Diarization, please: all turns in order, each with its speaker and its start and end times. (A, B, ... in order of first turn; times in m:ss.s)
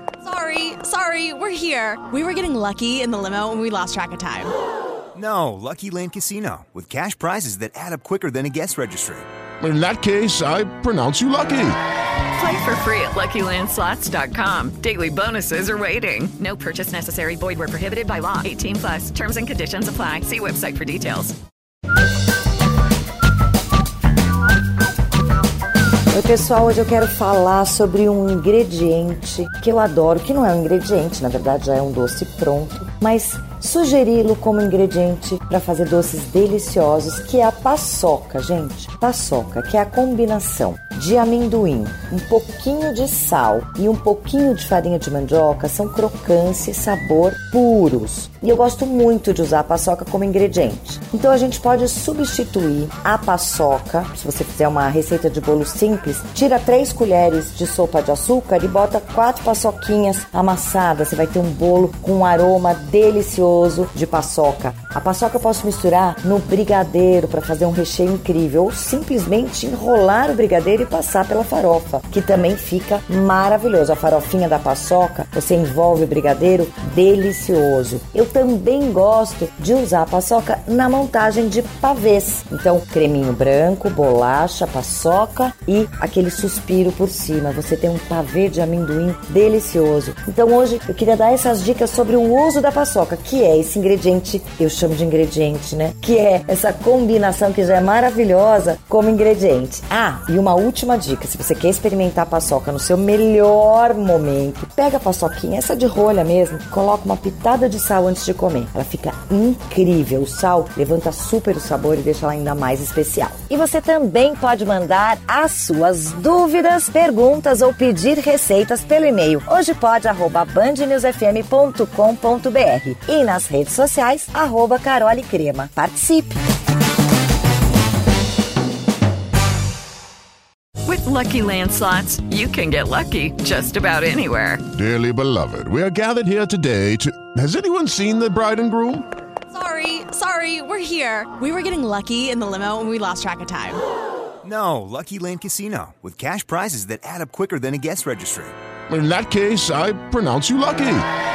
0:00.2-0:04.5 A
0:05.1-0:09.3 B
0:09.6-0:11.8 C
0:12.3-0:21.3 D
0:26.1-2:06.4 E
2:10.8-2:14.6 D
2:14.7-2:19.0 C
2:19.5-2:23.8 A
2:24.4-2:28.5 B
2:28.9-2:31.0 C